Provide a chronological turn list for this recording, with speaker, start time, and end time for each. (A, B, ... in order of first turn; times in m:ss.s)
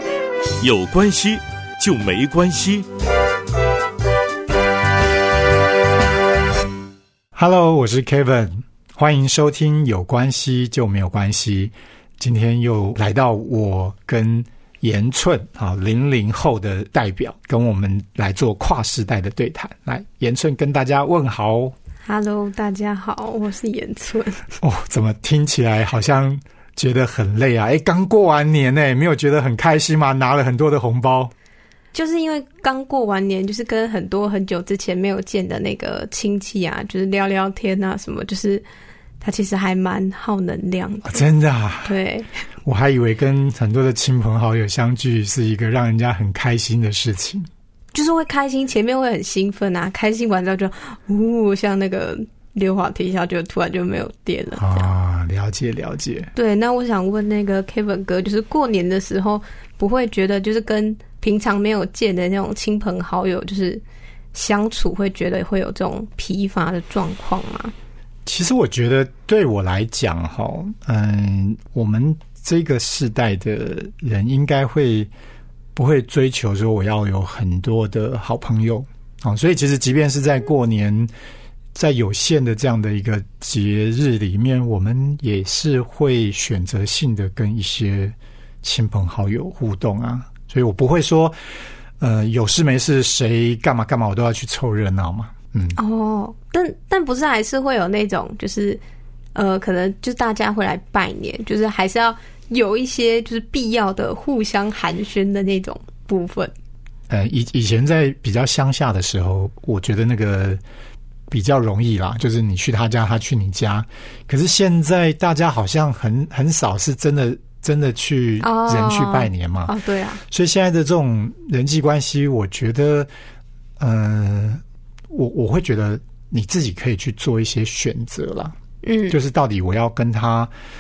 0:00.6-0:02.9 A
0:07.4-0:21.8 B
0:22.1-0:24.4 C
0:24.6-0:31.3 B
0:31.9-0:38.6 C
0:39.2-0:41.3 C
0:41.1-0:41.9 B
0:41.8-0:42.3 C
0:42.6-0:47.5 B
0:47.9-0:54.9 C
0:54.6-0:56.3 B
0:56.4-1:03.8 C
1:04.3-1:07.7 C
1:08.3-1:15.1 B
1:15.8-1:21.1 B
1:21.8-1:31.4 B
1:32.0-1:35.8 B
1:35.8-1:38.8 C
1:39.4-1:46.5 C
1:47.1-1:50.6 B
1:51.3-1:59.7 B
1:58.4-2:00.2 C
2:00.3-2:03.1 B
2:03.8-2:08.6 B
2:08.8-2:09.2 C
2:09.1-2:10.5 B